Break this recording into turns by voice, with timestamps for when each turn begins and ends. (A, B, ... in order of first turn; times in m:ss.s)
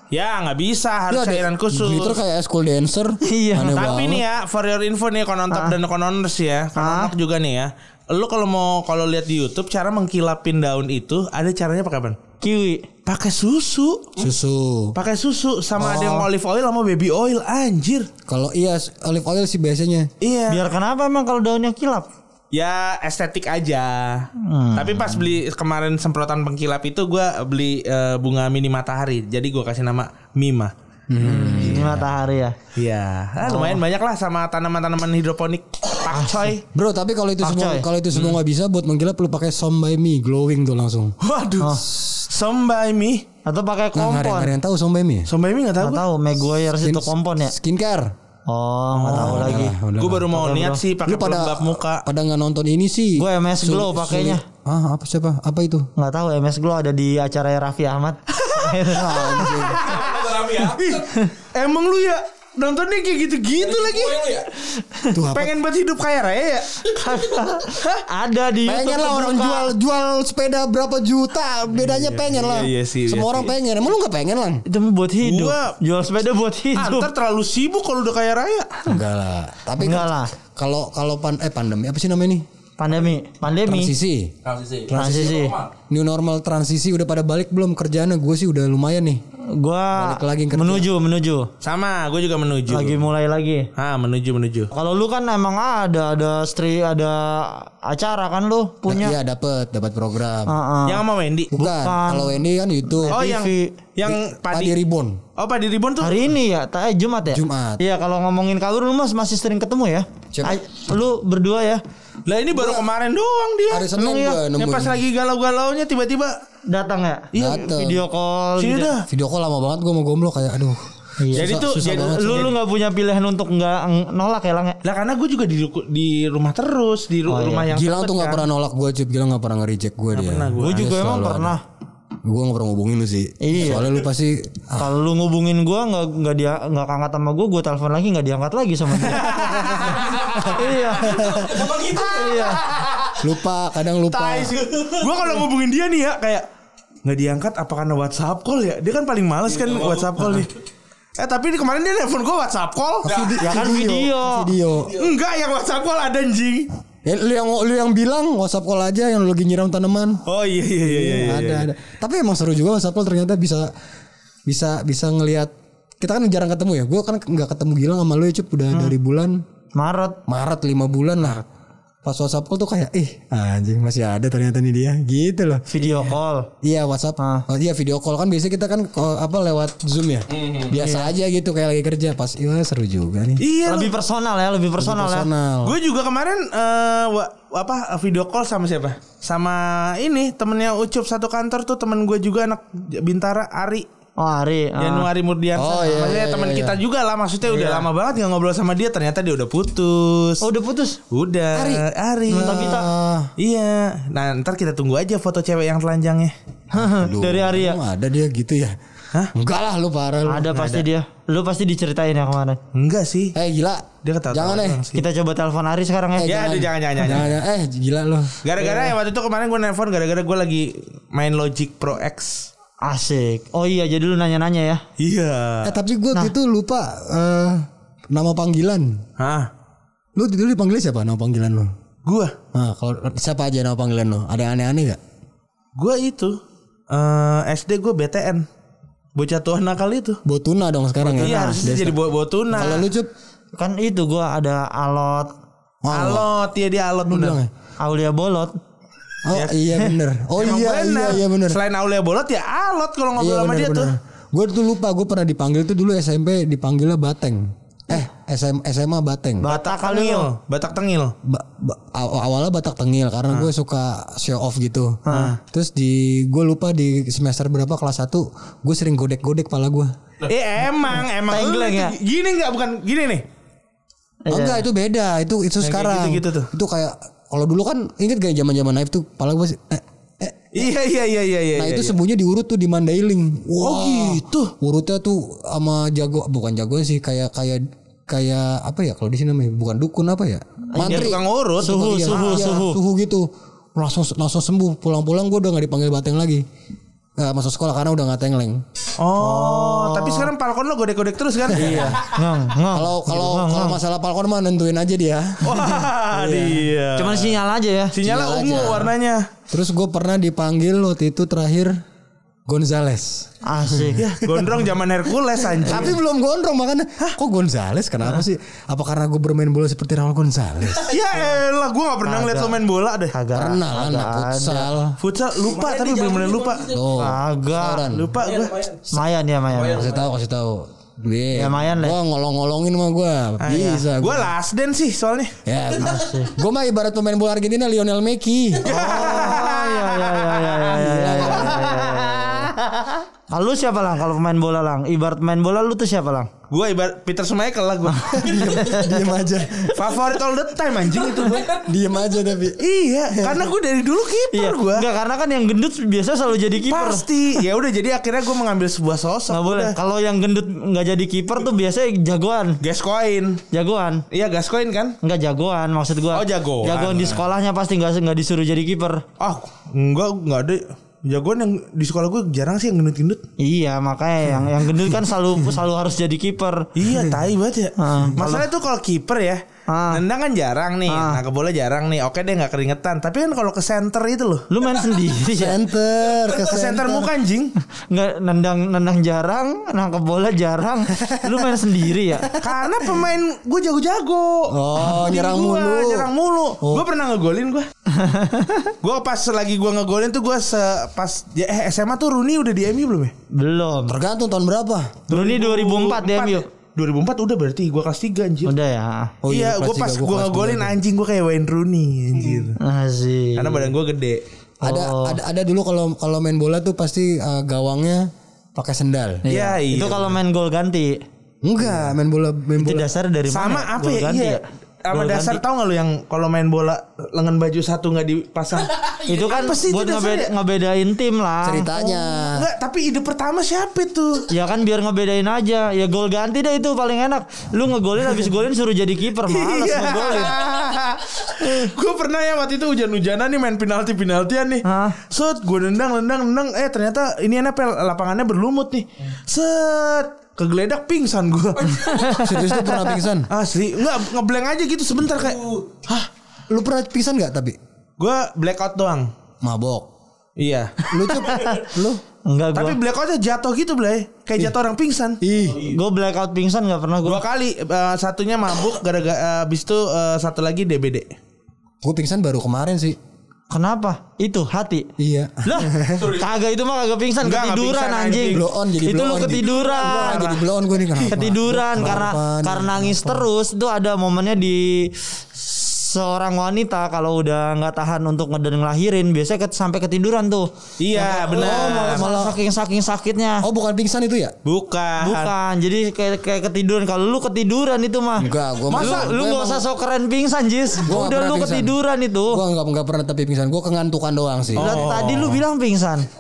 0:00.1-0:02.2 A
0:01.1-0:04.2 B
0:03.2-0:03.9 C
0:03.7-0:12.2 A
0:05.5-0:05.8 C
0:06.8-0:07.1 C
0:12.4-0:12.9 C
0:13.1-0:14.2 A
0:14.2-0:15.0 B
0:15.0-0:18.1 A
0:15.8-0:16.3 B
0:18.3-0:20.1 B
0:20.2-0:20.6 A
0:20.5-0:22.1 C
0:22.5-0:30.7 A
0:24.4-0:25.3 C
0:31.1-0:32.1 B
0:31.2-0:32.6 C
0:32.8-0:36.6 A
0:33.4-0:33.8 C
0:36.1-0:36.5 C
0:36.7-0:41.2 B
0:37.4-0:37.9 C
0:38.1-0:38.4 A
0:41.2-0:43.3 A
0:41.6-0:41.9 C
0:43.4-0:44.5 C
0:43.9-0:45.3 B
0:45.3-0:46.0 A
0:45.8-0:47.5 C
0:46.8-0:48.1 B
0:48.5-0:49.8 C
0:49.0-0:52.0 A
0:49.1-0:50.3 B
0:50.3-0:50.8 C
0:51.0-0:55.9 B
0:53.2-0:54.4 C
0:56.0-0:59.8 C
0:58.9-1:00.0 B
0:59.5-1:04.5 A
1:04.6-1:05.1 C
1:05.1-1:05.5 B
1:05.3-1:06.9 A
1:06.8-1:09.7 C
1:07.7-1:08.0 A
1:08.6-1:14.6 B
1:11.8-1:13.5 A
1:14.7-1:17.1 C
1:15.2-1:15.8 A
1:16.8-1:18.8 A
1:18.9-1:22.4 B
1:19.8-1:20.3 C
1:22.8-1:23.9 C
1:23.6-1:29.2 B
1:24.9-1:25.6 C
1:29.5-1:31.5 C
1:29.9-1:30.9 B
1:31.6-1:33.0 A
1:32.7-1:33.7 C
1:33.8-1:34.7 A
1:34.7-1:39.2 C
1:38.9-1:40.5 B
1:40.5-1:41.0 C
1:40.9-1:41.5 A
1:41.5-1:43.2 B
1:41.6-1:42.4 C
1:43.0-1:43.8 C
1:43.1-1:44.8 A
1:44.0-1:45.2 B
1:45.4-1:46.3 A
1:46.0-1:51.8 C
1:47.3-1:47.8 B
1:50.3-1:50.6 B
1:52.3-1:56.4 A
1:52.6-1:52.8 B
1:53.7-1:55.0 B
1:54.0-1:54.4 C
1:56.7-1:58.9 C
1:57.3-1:58.0 B
1:57.4-1:57.6 A
1:58.6-1:59.1 A
1:59.1-2:00.8 B
2:01.2-2:04.8 C
2:01.3-2:02.5 B
2:01.4-2:02.6 A
2:04.8-2:08.4 A
2:07.3-2:07.7 C
2:07.7-2:11.6 B
2:10.1-2:10.9 A
2:10.6-2:11.6 C
2:12.2-2:14.9 B
2:13.4-2:13.9 C
2:14.8-2:22.6 C
2:19.0-2:20.6 A
2:19.8-2:20.5 B
2:21.0-2:21.8 B
2:21.4-2:23.2 A
2:23.2-2:24.6 B
2:24.1-2:26.5 A
2:27.0-2:30.6 A
2:31.2-2:33.3 A
2:33.0-2:35.1 B
2:33.4-2:34.5 C
2:35.0-2:36.7 A
2:37.0-2:40.2 B
2:40.3-2:41.7 A
2:40.8-2:43.7 B
2:44.5-2:49.4 B
2:49.8-2:50.2 C
2:50.3-2:51.4 B
2:52.0-2:55.6 B
2:55.7-2:56.5 C
2:56.6-3:03.4 B
2:57.2-2:57.5 C
3:00.7-3:01.1 C
3:03.4-3:04.0 A
3:03.6-3:05.3 C
3:04.8-3:05.8 B
3:05.6-3:13.9 A
3:14.2-3:15.1 C
3:14.8-3:20.4 A
3:15.6-3:16.8 B
3:17.5-3:17.9 C
3:20.4-3:21.0 C
3:21.1-3:22.7 A
3:21.5-3:23.3 B
3:22.3-3:22.9 C
3:23.4-3:26.3 A
3:26.7-3:27.8 C
3:26.7-3:28.8 B
3:29.3-3:30.5 B
3:30.3-3:32.6 C
3:30.5-3:30.9 A
3:32.7-3:33.4 A
3:33.4-3:34.8 B
3:34.0-3:35.0 A
3:34.9-3:36.5 C
3:36.2-3:38.4 B
3:36.2-3:37.3 A
3:38.4-3:42.5 A
3:38.6-3:38.9 C
3:42.8-3:44.8 C
3:45.0-3:45.8 A
3:45.6-3:49.0 B
3:49.2-3:49.5 A
3:50.2-3:51.7 B
3:52.0-3:52.4 A
3:52.5-3:55.0 B
3:55.8-3:56.4 A
3:56.9-3:58.5 A
3:59.2-4:00.2 A
4:00.2-4:02.0 B
4:01.0-4:02.9 A
4:01.2-4:01.6 C
4:02.5-4:03.1 B
4:03.6-4:05.3 C
4:05.8-4:06.3 B
4:05.9-4:07.4 A
4:07.1-4:07.5 B
4:07.8-4:08.6 C
4:09.2-4:11.6 B
4:10.4-4:13.9 A
4:13.2-4:19.5 B
4:19.4-4:20.3 C
4:19.4-4:21.1 A
4:21.2-4:29.9 B
4:25.1-4:25.4 C
4:30.2-4:33.2 A
4:31.3-4:32.0 C
4:34.3-4:34.6 C
4:34.3-4:40.7 B
4:35.6-4:36.5 A
4:40.5-4:42.0 A
4:41.6-4:56.4 B
4:43.6-4:44.5 A
4:50.7-4:52.8 C
4:50.8-4:52.5 A
4:57.2-4:58.6 B
4:59.0-5:02.0 A
4:59.2-5:00.3 C
5:01.5-5:02.0 B
5:01.5-5:03.8 C
5:02.7-5:06.7 B
5:05.4-5:07.4 A
5:07.0-5:07.9 C
5:07.9-5:09.3 A
5:08.0-5:08.9 B
5:09.5-5:11.8 B
5:12.5-5:14.5 B
5:13.4-5:14.1 C
5:14.0-5:16.0 A
5:15.6-5:21.0 B
5:20.8-5:23.1 A
5:22.0-5:22.6 C
5:23.1-5:24.7 C
5:23.3-5:25.0 B
5:25.0-5:26.7 A
5:26.6-5:28.2 B
5:27.0-5:27.8 C
5:27.8-5:28.8 A
5:28.9-5:29.9 C
5:29.6-5:34.3 B
5:31.3-5:32.0 C
5:33.4-5:35.4 A
5:35.4-5:39.5 B
5:35.8-5:36.3 C
5:38.6-5:40.7 A
5:38.6-5:42.6 C
5:40.7-5:41.8 B
5:41.4-5:42.5 A
5:43.3-5:46.3 C
5:46.5-5:48.5 A
5:47.9-5:49.2 C
5:48.1-5:49.8 B
5:49.7-5:51.6 A
5:51.5-5:53.5 B
5:52.6-5:54.9 A
5:54.3-5:57.1 C
5:56.7-5:59.8 A
5:59.3-6:02.6 C
6:02.6-6:03.4 A
6:03.5-6:04.0 C
6:04.1-6:05.0 A
6:05.0-6:09.0 C
6:06.1-6:07.2 A
6:09.2-6:13.2 A
6:13.4-6:16.7 C
6:16.8-6:24.5 A
6:17.8-6:18.5 C
6:19.7-6:20.0 C
6:20.9-6:21.2 C
6:24.5-6:25.6 C
6:25.2-6:27.1 B
6:26.3-6:27.5 A
6:27.9-6:32.3 C
6:31.0-6:31.5 B
6:32.4-6:37.7 A
6:34.5-6:36.1 B
6:37.9-6:38.7 C
6:38.8-6:43.1 A
6:43.3-6:44.0 C
6:43.9-6:45.0 B
6:45.1-6:48.5 A
6:45.1-6:46.5 C
6:48.5-6:49.1 C
6:49.2-6:50.8 B
6:49.3-6:52.6 A
6:52.6-6:53.7 C
6:53.4-6:54.2 A
6:54.6-6:59.2 B
6:54.6-6:55.2 C
6:59.2-7:01.0 C
6:59.3-7:00.2 A
7:01.4-7:02.9 B
7:02.6-7:05.4 C
7:03.3-7:10.3 A
7:09.0-7:11.7 C
7:11.4-7:12.5 B
7:11.8-7:14.3 A
7:14.3-7:20.3 C
7:19.3-7:32.3 A
7:21.4-7:21.7 C
7:24.6-7:25.0 C
7:31.8-7:32.9 C
7:32.1-7:33.3 B
7:33.3-7:35.9 A
7:36.5-7:37.6 B
7:38.0-7:39.1 A
7:39.4-7:39.9 B
7:40.4-7:40.8 A
7:40.9-7:42.0 B
7:41.0-7:41.7 C
7:42.3-7:42.8 C
7:42.5-7:45.2 A
7:45.2-7:45.8 B
7:45.5-7:47.2 C
7:47.0-7:51.1 A
7:51.8-7:53.0 B
7:53.5-7:54.9 C
7:55.0-7:56.2 B
7:55.4-8:00.4 C
7:57.2-7:58.5 A
7:58.3-8:03.3 B
7:59.9-8:00.3 A
8:00.9-8:13.5 C
8:10.8-8:12.0 A
8:11.3-8:12.4 B
8:13.4-8:14.3 B
8:14.4-8:15.3 A
8:15.0-8:22.4 C
8:18.2-8:19.7 B
8:18.7-8:19.2 A
8:20.8-8:24.9 B
8:24.6-8:25.4 A
8:24.6-8:26.1 C